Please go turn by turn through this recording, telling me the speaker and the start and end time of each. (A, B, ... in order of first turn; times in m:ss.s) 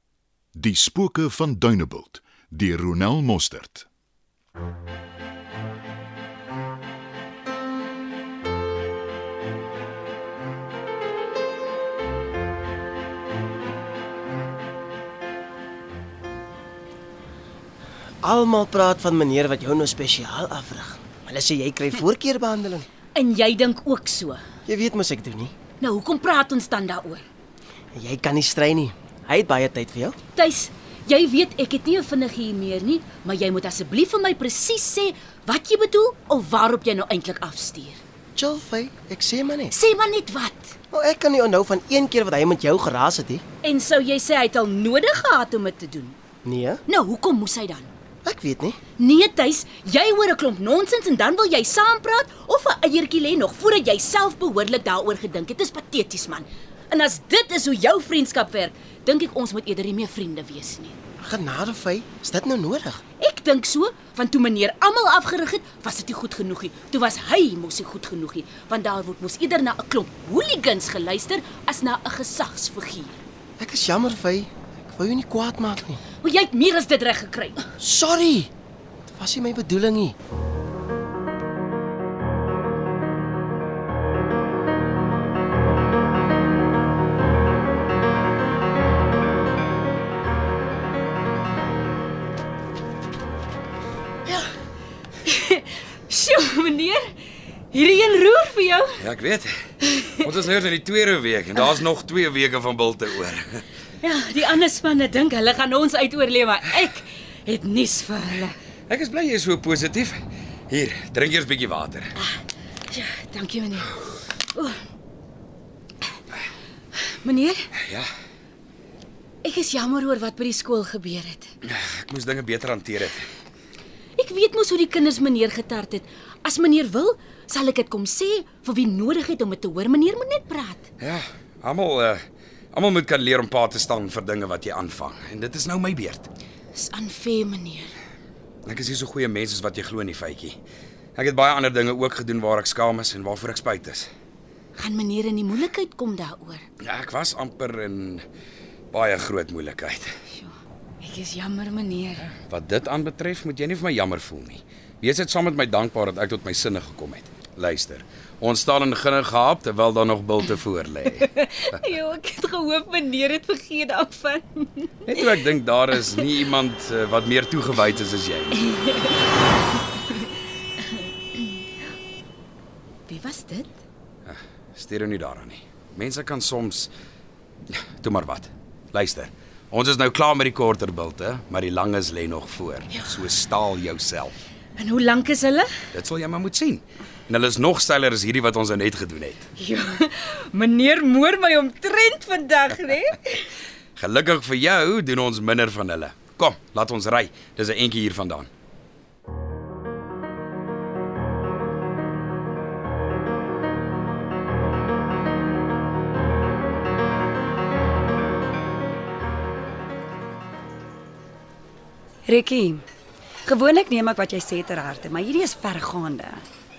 0:00.6-0:03.9 A
0:18.2-0:22.9 B
0:23.1-0:24.4 C
0:24.7-0:25.5 B
0:25.8-0:27.2 C
0:27.9-0:30.2 B
0:30.4-0:38.0 C
0:38.4-0:39.7 B
0:39.7-0:40.7 C
0:40.9-0:43.4 B
0:43.6-0:46.2 C
0:46.4-0:46.8 B
0:46.9-0:47.9 C
0:48.2-0:48.8 B
0:49.0-1:01.0 C
1:01.2-1:03.0 B
1:03.2-1:13.2 C
1:13.6-1:16.0 B
1:16.2-1:17.7 C
1:17.8-1:18.5 B
1:19.1-1:20.2 B
1:35.2-1:37.1 C
1:37.7-1:39.0 C
1:39.0-1:39.6 D
1:39.8-1:40.3 C
1:40.2-1:43.7 D
1:44.0-1:48.6 C
1:48.9-1:52.1 D
1:52.2-1:54.8 C
1:57.0-1:57.7 C
1:57.8-1:58.1 D
1:59.4-2:01.5 C
2:01.6-2:03.3 D
2:04.2-2:10.9 C
2:11.0-2:12.2 D
2:12.7-2:16.3 D
2:16.7-2:17.9 C
2:18.6-2:20.6 D
2:21.2-2:24.1 D
2:24.8-2:26.6 C
2:26.8-2:28.2 D
2:28.9-2:30.1 D
2:30.3-2:32.3 C
2:32.2-2:41.7 D
2:41.2-2:46.3 C
2:45.0-2:48.7 D
2:48.6-2:49.2 C
2:50.0-2:50.2 C
2:53.1-2:53.7 C
2:54.2-2:56.9 D
2:57.7-3:04.4 D
3:02.9-3:03.4 C
3:04.8-3:05.7 C
3:05.9-3:09.5 D
3:09.6-3:13.5 C
3:14.0-3:18.5 D
3:32.2-3:32.8 E
3:33.4-3:36.4 E